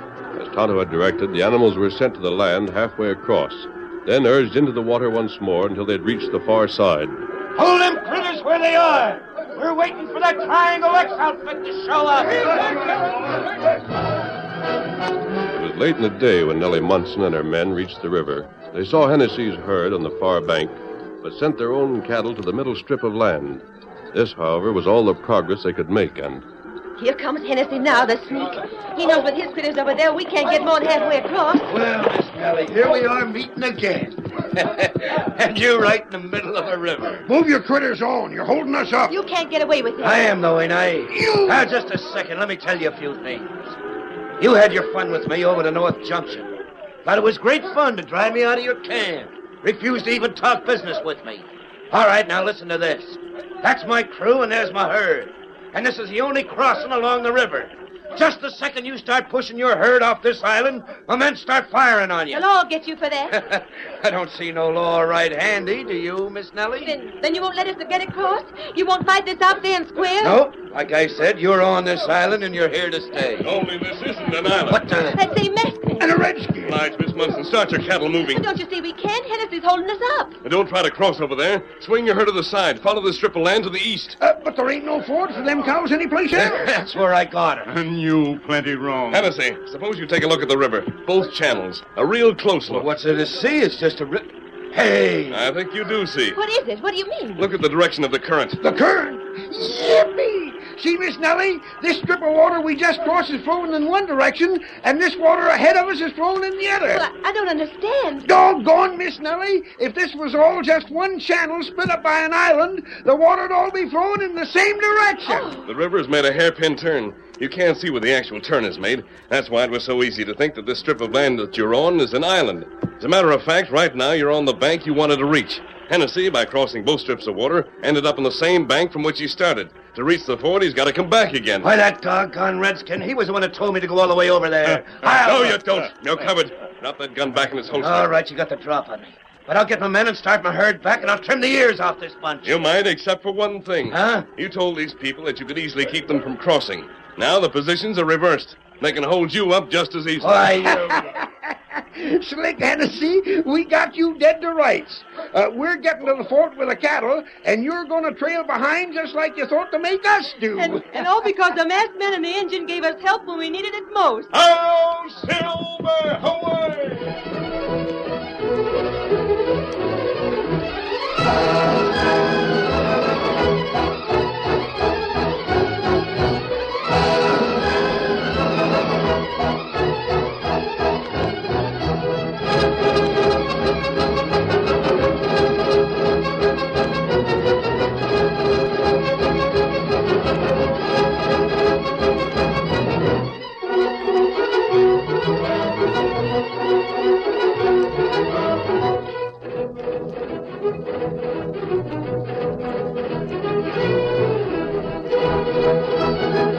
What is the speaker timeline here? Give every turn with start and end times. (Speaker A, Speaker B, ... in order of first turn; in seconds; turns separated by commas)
Speaker A: 0.3-7.2, Speaker B: 7.5-12.9, Speaker A: 15.5-26.4, Speaker C: 27.0-31.7, Speaker B: 31.7-37.3, Speaker D: 37.3-39.1, Speaker C: 39.1-40.3, Speaker B: 40.0-43.8, Speaker D: 41.1-41.7, Speaker B: 44.4-46.5, Speaker B: 47.0-62.5, Speaker C: 62.3-63.4, Speaker B: 63.3-66.9, Speaker C: 66.8-70.4, Speaker B: 70.2-73.5, Speaker E: 73.4-74.9, Speaker B: 74.7-75.2, Speaker C: 75.1-76.1, Speaker D: 76.0-76.8, Speaker E: 76.7-78.5, Speaker C: 78.3-80.3, Speaker E: 80.4-84.2, Speaker D: 84.2-86.9, Speaker B: 86.3-87.7, Speaker F: 87.7-89.3, Speaker E: 89.1-92.9, Speaker B: 92.7-95.4, Speaker E: 95.3-96.4, Speaker C: 96.3-97.5, Speaker E: 97.4-98.6, Speaker D: 98.6-107.0, Speaker C: 106.9-108.3, Speaker D: 108.3-115.5, Speaker C: 115.3-115.7, Speaker E: 115.7-131.8, Speaker B: 131.6-135.6, Speaker F: 134.8-135.6, Speaker E: 134.9-138.2, Speaker B: 137.8-142.6, Speaker E: 142.4-150.7, Speaker B: 143.9-144.3, Speaker B: 150.2-151.0, Speaker D: 150.6-160.9, Speaker C: 160.6-164.3, Speaker E: 164.3-166.9